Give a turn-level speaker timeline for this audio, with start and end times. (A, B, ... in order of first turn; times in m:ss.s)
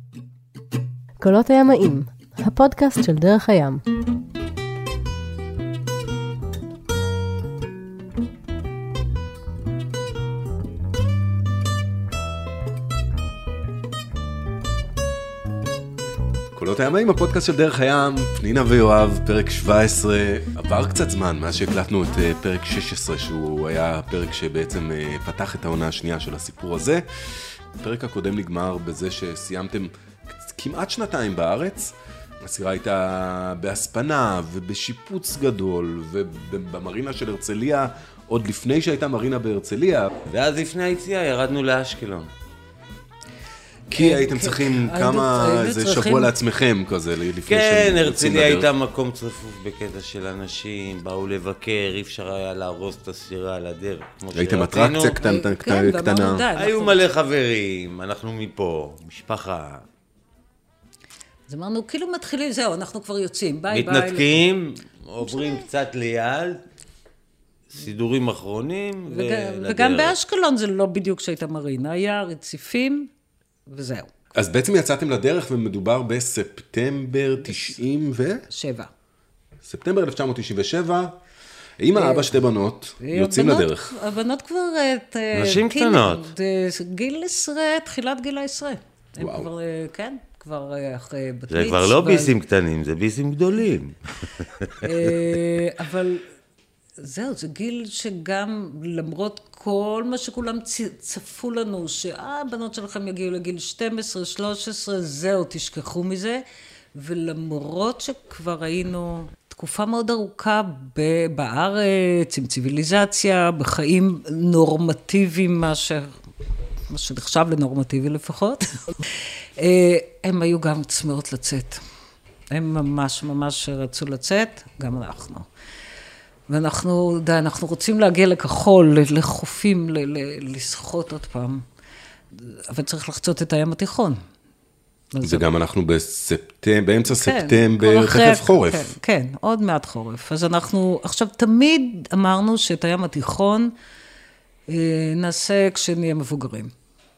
0:01.2-0:03.8 A
0:16.5-0:40.1 B
0:40.3-0:42.3 C
0:43.9-0:46.3 D
0:43.9-0:48.7 B
0:47.5-0:55.2 C
0:54.3-0:56.4 B
0:55.2-0:57.0 D
0:56.6-0:59.8 C
1:01.5-1:04.4 D
1:03.7-1:06.6 C
1:05.2-1:05.6 D
1:07.7-1:10.2 C
1:09.1-1:13.1 D
1:13.7-1:14.1 D
1:14.4-1:18.4 B
1:17.4-1:17.7 D
1:18.5-1:18.9 D
1:19.6-1:21.2 B
1:21.8-1:24.0 B
1:22.0-1:22.3 D
1:23.0-1:32.3 D
1:25.3-1:26.3 C
1:29.2-1:29.5 B
1:31.5-1:35.2 C
1:34.8-1:36.2 D
1:37.0-1:46.4 D
1:47.0-1:56.2 D
1:56.9-2:01.8 D
2:02.5-2:05.5 D
2:06.5-2:11.6 D
2:12.3-2:14.2 D
2:15.1-2:15.4 D
2:15.2-2:19.0 B
2:17.1-2:23.7 D
2:24.7-2:26.7 D